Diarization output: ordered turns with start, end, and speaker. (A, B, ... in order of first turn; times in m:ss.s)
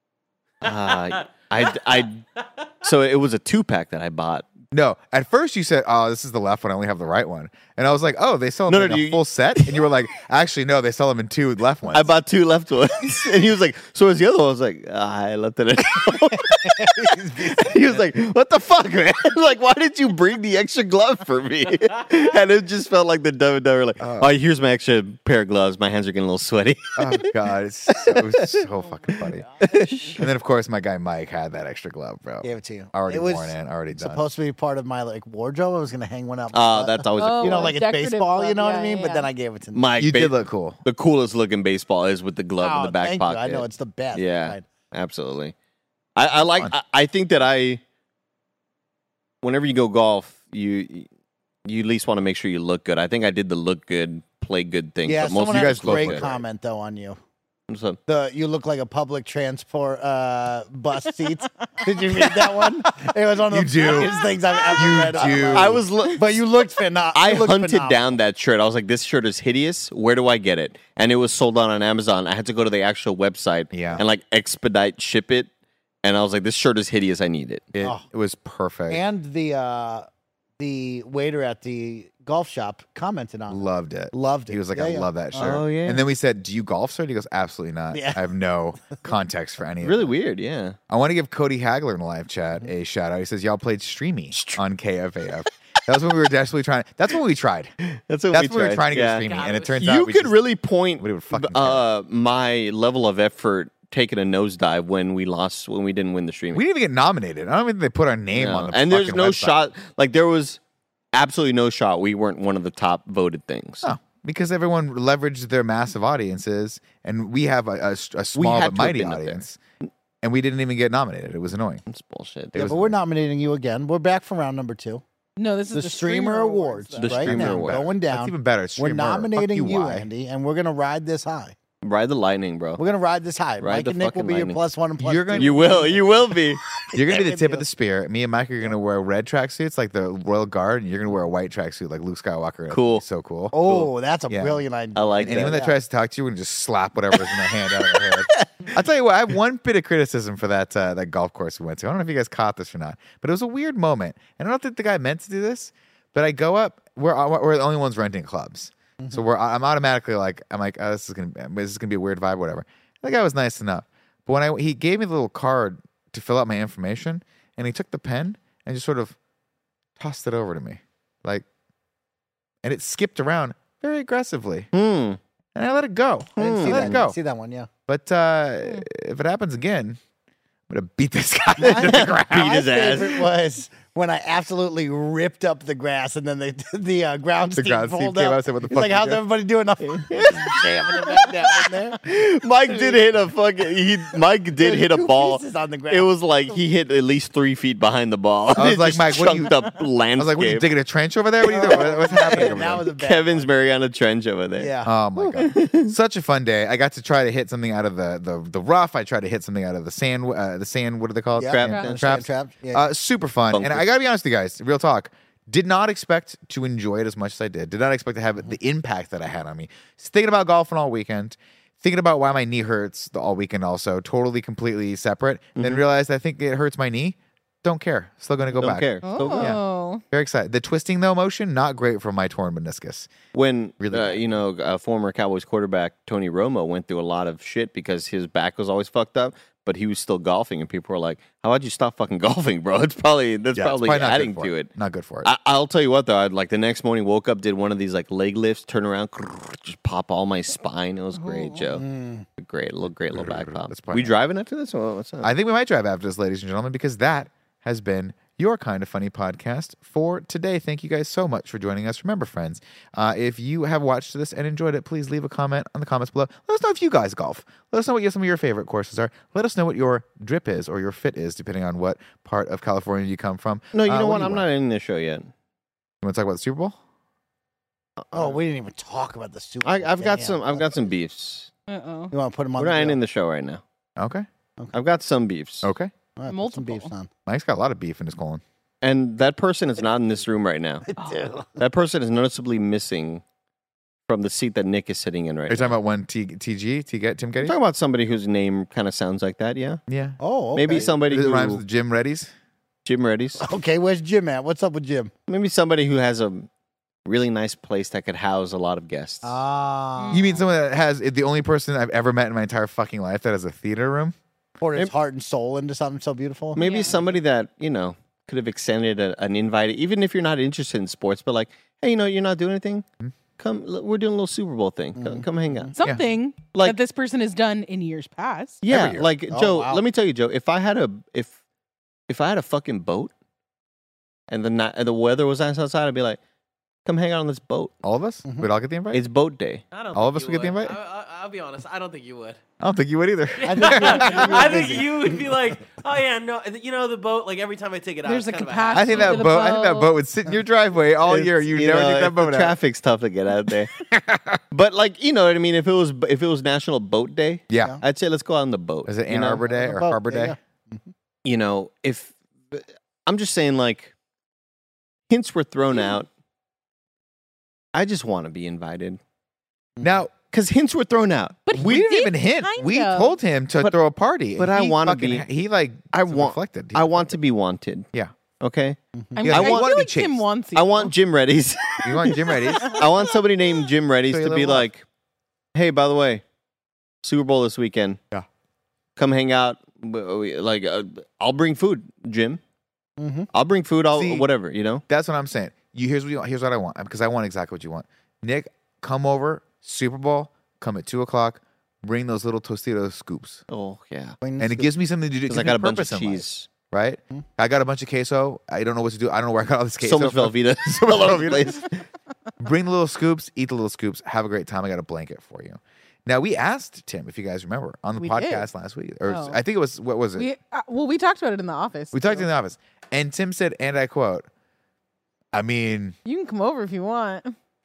0:00.6-0:02.2 A
0:00.7-0:01.6 B
0:02.8-0:04.5 A
0:04.7-0:12.1 C
0:08.7-0:09.9 A
0:11.9-0:27.3 A
0:16.9-0:17.1 D
0:17.2-0:17.8 C
0:24.0-0:24.3 C
0:27.0-0:29.5 C
0:27.9-0:28.6 A
0:29.6-0:30.2 A
0:30.2-0:34.2 C
0:32.4-0:39.9 D
0:36.5-0:37.8 A
0:37.2-0:39.3 E
0:39.7-0:45.5 A
0:40.0-0:40.8 C
0:42.6-0:44.6 D
0:46.2-0:47.8 A
0:49.4-0:51.1 A
0:51.7-0:56.3 A
0:55.1-0:57.2 D
0:55.3-0:56.4 C
0:57.7-0:58.0 A
0:58.1-1:08.2 D
1:03.5-1:04.2 C
1:04.8-1:05.8 C
1:05.5-1:06.4 A
1:07.1-1:15.5 A
1:13.7-1:14.0 C
1:16.0-1:17.7 A
1:17.7-1:19.0 C
1:18.9-1:20.1 D
1:20.6-1:25.7 D
1:23.5-1:30.2 C
1:25.4-1:26.0 A
1:27.9-1:28.2 D
1:29.8-1:30.8 A
1:30.9-1:37.7 C
1:34.3-1:34.6 A
1:38.1-1:39.3 A
1:38.3-1:40.4 C
1:39.2-1:39.8 B
1:39.8-1:46.6 A
1:41.0-1:41.8 C
1:46.5-1:49.6 C
1:48.4-1:50.6 A
1:51.1-1:53.9 A
1:53.8-1:59.6 C
1:58.4-1:59.4 A
2:00.2-2:01.8 C
2:01.9-2:02.9 A
2:02.6-2:05.0 D
2:05.4-2:07.2 E
2:05.7-2:11.6 D
2:07.0-2:07.9 A
2:07.1-2:10.1 C
2:11.8-2:12.8 A
2:12.8-2:16.4 D
2:13.6-2:14.6 A
2:15.0-2:16.0 C
2:15.4-2:16.6 A
2:16.9-2:17.6 D
2:16.9-2:23.6 C
2:22.7-2:23.0 A
2:23.5-2:25.8 D
2:24.3-2:24.6 C
2:25.0-2:25.6 A
2:25.2-2:49.2 C
2:28.4-2:28.7 A
2:50.0-2:51.4 C
2:52.6-2:54.7 C
2:54.7-2:55.2 A
2:55.6-2:57.2 C
2:56.4-2:57.0 A
2:56.4-2:57.7 D
2:57.9-3:00.0 C
3:00.7-3:02.6 C
3:01.6-3:12.0 D
3:01.6-3:03.2 A
3:07.6-3:09.2 C
3:09.9-3:20.7 A
3:12.7-3:13.0 D
3:14.6-3:16.6 D
3:18.6-3:19.6 C
3:20.2-3:22.9 C
3:21.4-3:23.5 D
3:21.6-3:24.7 A
3:24.6-3:25.0 D
3:24.8-3:53.1 C
3:25.4-3:25.9 A
3:31.4-3:32.9 D
3:31.5-3:32.0 A
3:33.5-3:33.9 A
3:45.6-3:45.8 A
3:48.6-3:49.6 A
3:49.0-3:50.0 E
3:53.3-4:04.7 A
3:53.8-3:54.4 C
4:03.5-4:05.3 C
4:05.2-4:11.8 A
4:11.2-4:11.6 E
4:11.8-4:12.3 D
4:12.4-4:15.3 A
4:12.8-4:14.2 C
4:15.2-4:34.5 C
4:33.7-4:35.3 A
4:36.0-4:36.8 C
4:38.0-4:38.4 A
4:38.1-4:40.8 D
4:39.6-4:41.5 A
4:41.7-4:42.1 E
4:42.1-4:43.0 D
4:42.6-4:43.6 A
4:44.0-4:44.3 C
4:44.7-4:45.7 A
4:45.6-4:45.9 C
4:46.2-4:47.1 D
4:46.3-4:46.9 E
4:47.3-4:48.4 C
4:48.8-4:50.8 A
4:50.9-4:51.5 D
4:51.0-4:51.3 E
4:51.6-4:53.2 A
4:54.1-4:55.7 A
4:55.5-4:57.6 C
4:57.4-4:59.8 A
4:59.9-5:02.3 C
5:00.2-5:00.9 D
5:00.6-5:01.6 A
5:02.8-5:03.5 A
5:03.4-5:05.1 D
5:05.3-5:06.5 A
5:07.1-5:09.4 A
5:09.2-5:10.4 D
5:10.0-5:10.4 E
5:10.1-5:14.2 C
5:14.6-5:17.2 D
5:16.5-5:22.8 A
5:16.6-5:17.0 E
5:23.4-5:25.7 A
5:25.0-5:25.7 D
5:25.8-5:28.6 E
5:28.6-5:31.3 A
5:28.7-5:29.1 C
5:29.3-5:29.8 D
5:32.1-5:33.1 A
5:34.3-5:36.2 A
5:36.8-5:37.7 A
5:37.8-5:39.0 C
5:38.9-5:39.6 A
5:39.7-5:42.4 B
5:39.9-5:40.8 C
5:42.6-5:44.4 C
5:43.4-5:49.3 B
5:43.4-5:45.3 D
5:48.0-5:49.9 E
5:48.7-5:52.6 C
5:51.1-5:53.7 A
5:53.9-5:54.4 C
5:54.5-5:59.4 A
5:57.5-5:57.8 C
5:58.9-6:00.4 C
5:59.4-6:00.9 D
6:01.2-6:03.9 A
6:05.1-6:06.1 A
6:07.7-6:09.0 A
6:09.8-6:10.1 D
6:09.8-6:10.1 C
6:10.3-6:11.4 A
6:11.5-6:13.2 E
6:11.5-6:17.2 C
6:14.4-6:15.3 A
6:15.9-6:17.9 A
6:18.4-6:18.8 A
6:19.0-6:19.2 D
6:19.2-6:20.9 E
6:19.2-6:20.2 C
6:19.3-6:19.7 A
6:20.6-6:24.8 A
6:21.8-6:22.9 C
6:24.1-6:24.7 C
6:25.6-6:26.2 A
6:27.0-6:28.0 A
6:29.0-6:32.4 A
6:33.0-6:33.3 D
6:33.3-6:34.8 A
6:33.9-6:34.3 C
6:34.9-6:43.4 C
6:43.5-6:44.2 A
6:44.2-6:44.7 D
6:44.4-6:51.6 C
6:45.3-6:46.5 A
6:49.8-6:51.7 A
6:52.4-7:00.3 C
6:58.0-6:58.5 E
6:59.1-6:59.4 E
7:00.2-7:02.3 E
7:01.9-7:04.3 C
7:05.3-7:06.0 C
7:06.0-7:07.4 E